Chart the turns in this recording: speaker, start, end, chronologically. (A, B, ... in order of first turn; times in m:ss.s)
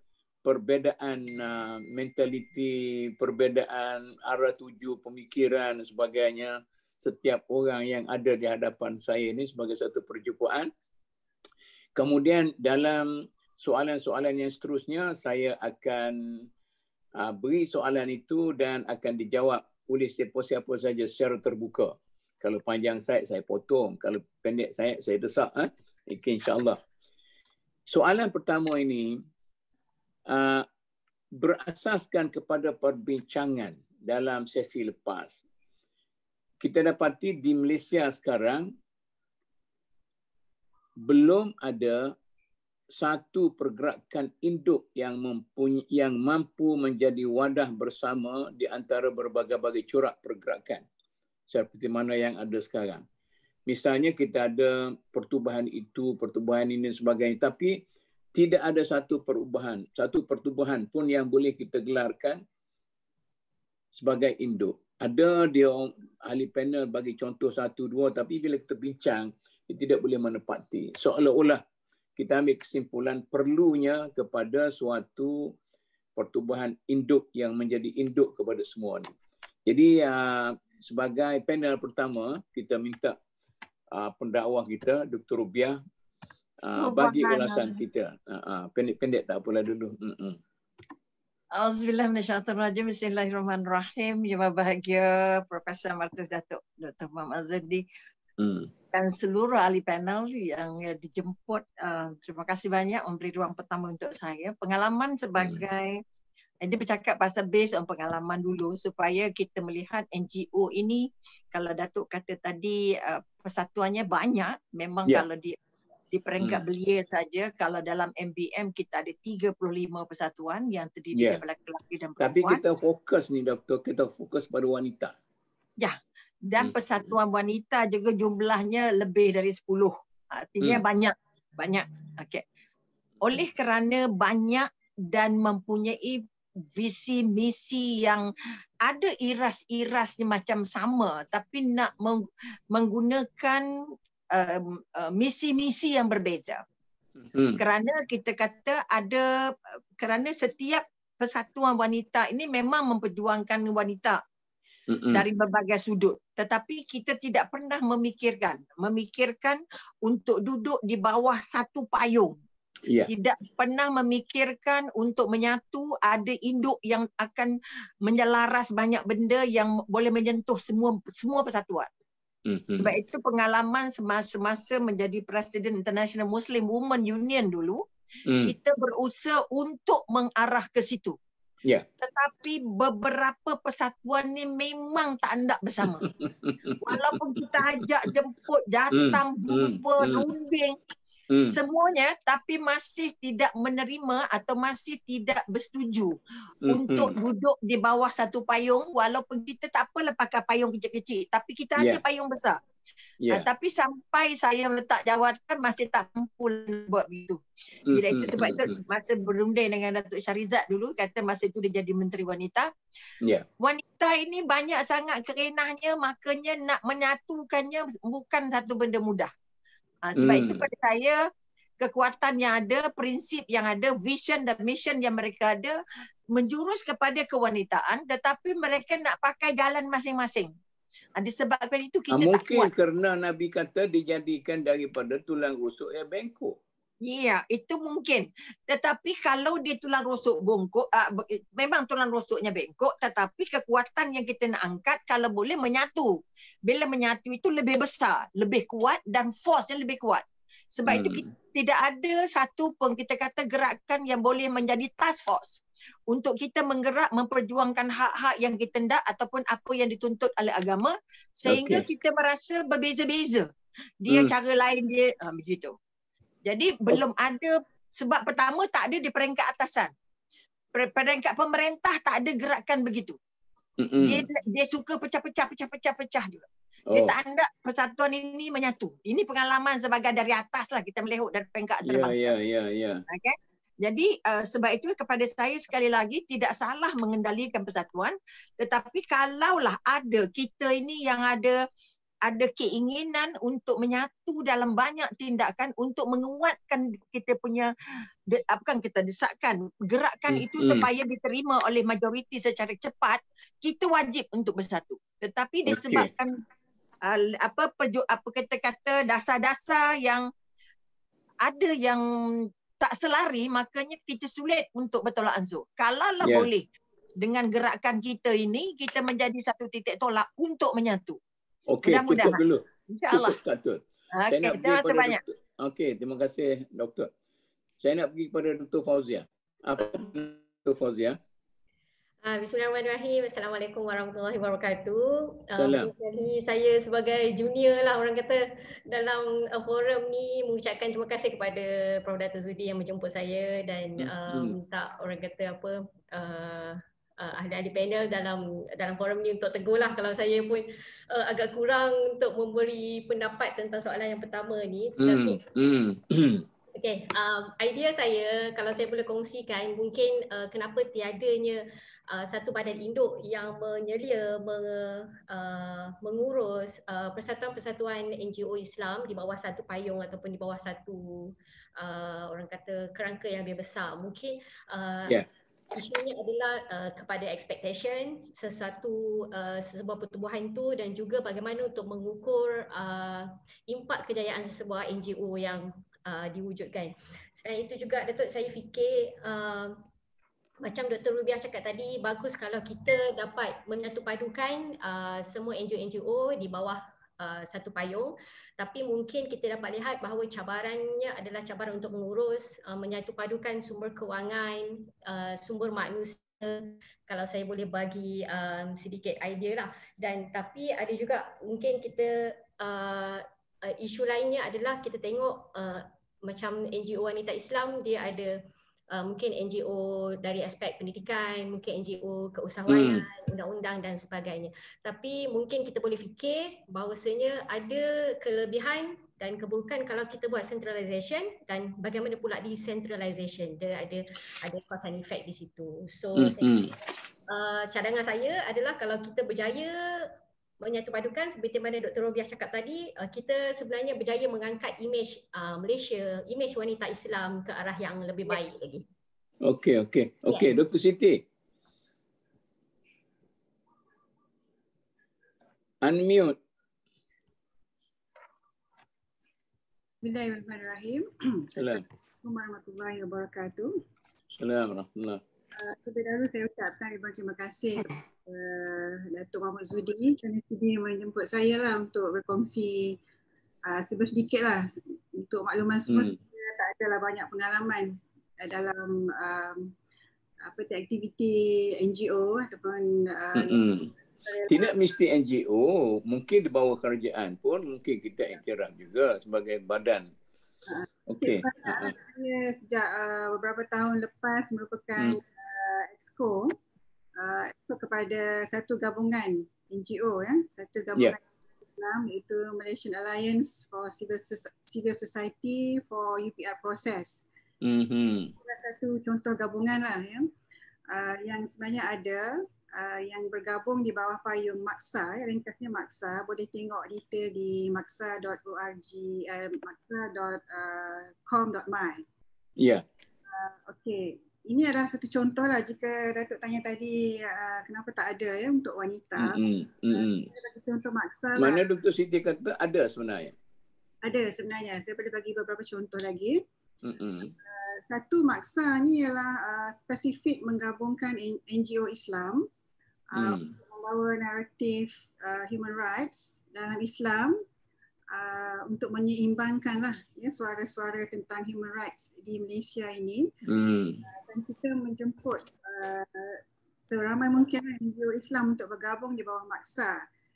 0:00.4-0:10.7 A
0:12.0-0:16.5 A
0:17.2-0:26.8 A
0:27.9-0:29.2 A
0:30.3-0:30.6 A
0:31.4-0:35.4 A
0:36.6-0:38.7 A
0:41.0-0:42.1 A
0:42.9-0:50.8 A
0:51.5-0:53.0 A
0:53.7-0:57.8 A
0:58.3-1:02.4 A
1:03.9-1:11.6 A
1:12.2-1:15.5 A
1:16.2-1:19.1 A
1:19.7-1:23.2 A
1:23.9-1:25.8 A
1:26.6-1:30.4 A
1:26.7-1:27.8 B
1:31.5-1:37.8 C
1:38.4-1:38.7 A
1:38.9-1:46.0 C
1:46.6-1:55.6 C
1:56.1-2:02.6 C
2:01.1-2:01.4 A
2:02.2-2:05.1 A
2:05.8-2:12.4 C
2:13.2-2:18.3 C
2:18.8-2:23.6 C
2:24.3-2:26.6 C
2:27.2-2:27.6 A
2:27.6-2:29.3 C
2:30.0-2:34.2 C
2:34.9-2:35.2 A
2:35.1-2:42.4 C
2:42.8-2:43.1 A
2:43.0-2:47.5 C
2:48.0-2:51.9 C
2:52.4-2:52.9 A
2:52.7-2:57.8 C
2:58.2-2:58.5 A
2:58.4-3:01.2 C
3:02.0-3:06.1 C
3:06.2-3:07.8 A
3:06.8-3:10.8 C
3:08.9-3:10.3 A
3:11.4-3:16.2 C
3:16.6-3:17.1 A
3:16.7-3:22.6 C
3:23.3-3:32.7 C
3:27.9-3:28.8 A
3:33.6-3:39.3 C
3:40.0-3:41.2 C
3:40.2-3:40.6 A
3:41.8-3:45.8 C
3:46.3-3:50.5 C
3:51.2-3:52.7 C
3:52.1-3:56.6 A
3:57.0-4:23.5 C
4:10.9-4:11.3 A
4:21.5-4:21.8 A
4:24.0-4:25.7 C
4:26.4-4:29.9 C
4:30.7-4:33.2 C
4:33.8-4:34.2 A
4:34.0-4:42.3 C
4:36.9-4:37.1 A
4:41.8-4:43.0 A
4:43.1-4:51.6 C
4:52.2-4:57.7 C
4:58.3-5:06.4 C
5:00.3-5:00.8 A
5:05.7-5:06.1 A
5:07.0-5:10.2 C
5:11.4-5:16.6 C
5:16.2-5:16.5 A
5:17.2-5:21.2 C
5:21.7-5:27.1 A
5:21.8-5:23.4 C
5:24.1-5:25.2 C
5:27.8-5:31.2 A
5:32.2-5:55.4 D
5:35.5-5:35.9 A
5:44.0-5:44.6 A
5:55.0-5:56.4 A
5:56.7-6:15.2 D
6:15.7-6:29.8 D
6:30.6-6:58.4 D
6:58.9-7:16.6 D
7:02.7-7:03.0 A
7:16.2-7:16.7 A
7:17.3-7:28.8 D
7:29.4-7:31.2 A
7:35.8-7:36.3 A
7:40.0-7:43.7 B
7:41.6-7:41.8 A
7:44.3-7:45.2 A
7:45.6-7:53.0 B
7:53.7-7:54.6 B
7:55.2-7:59.7 B
7:55.9-7:56.2 A
8:00.4-8:03.6 B
8:03.4-8:03.9 A
8:04.2-8:04.7 B
8:04.5-8:10.1 A
8:10.7-8:16.5 B
8:11.1-8:11.9 A
8:17.2-8:27.2 B
8:27.6-8:28.3 A
8:28.4-8:30.3 B
8:30.9-8:42.0 B
8:42.6-8:42.8 A
8:43.3-8:49.4 B
8:49.2-8:50.3 A
8:49.9-8:51.6 B
8:51.4-8:53.3 A
8:54.0-8:56.4 B
8:56.8-8:57.3 A
8:57.4-9:02.4 B
9:03.1-9:07.4 B
9:03.2-9:03.5 A
9:08.1-9:13.3 B
9:13.5-9:14.0 A
9:14.1-9:20.0 B